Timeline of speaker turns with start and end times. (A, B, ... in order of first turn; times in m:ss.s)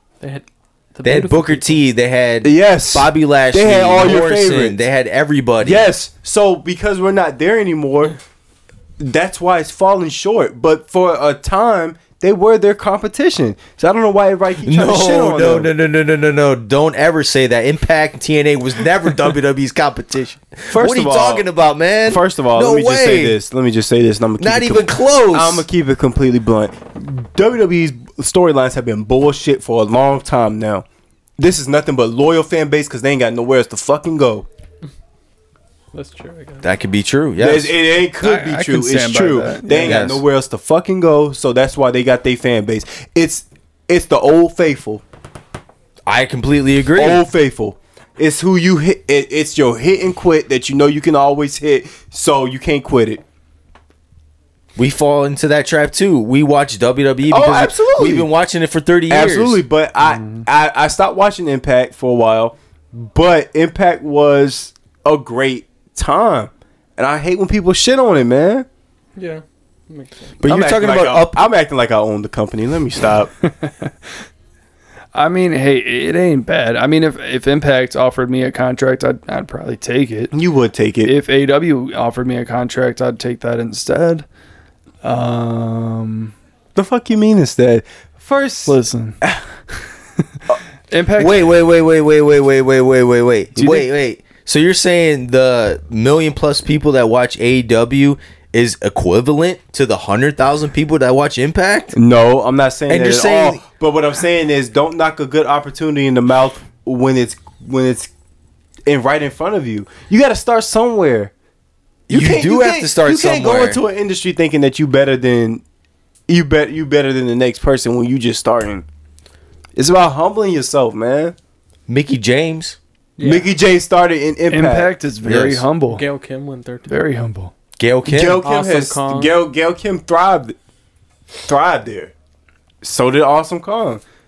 0:00.2-0:01.8 A
0:01.0-0:05.9 B
0:02.4-0:04.8 C
0:05.6-0:08.2 C
0:09.0-0:15.7 C
0:14.6-0:23.4 B
0:20.7-0:21.5 C
0:22.0-0:30.8 C
0:24.4-0:25.6 B
0:31.4-0:34.4 C
0:35.9-0:36.7 A
0:36.6-0:37.7 B
0:37.4-0:45.0 C
0:38.2-0:40.1 D
0:39.8-0:40.2 B
0:46.0-0:47.2 B
0:47.0-0:53.2 C
0:54.8-0:59.6 B
0:57.3-0:58.3 C
0:59.1-1:08.6 C
1:00.0-1:00.4 D
1:09.2-1:10.4 A
1:10.4-1:11.4 B
1:10.4-1:13.3 C
1:13.4-1:13.9 D
1:15.1-1:20.4 D
1:20.3-1:21.1 C
1:21.0-1:24.2 D
1:25.0-1:26.3 D
1:26.7-1:29.4 C
1:28.6-1:29.2 D
1:30.9-1:31.5 D
1:31.2-1:42.0 B
1:41.9-1:48.1 C
1:42.9-1:43.6 B
1:48.8-1:51.3 C
1:52.1-1:53.8 B
1:52.1-1:55.6 C
1:56.3-1:58.8 C
1:59.8-2:01.3 C
2:01.9-2:02.8 B
2:03.2-2:03.5 A
2:03.2-2:04.9 C
2:04.5-2:06.0 D
2:05.2-2:05.6 B
2:05.9-2:06.9 A
2:06.9-2:07.5 D
2:07.8-2:08.4 B
2:08.0-2:10.6 C
2:08.4-2:09.3 A
2:11.5-2:12.1 C
2:12.8-2:14.0 C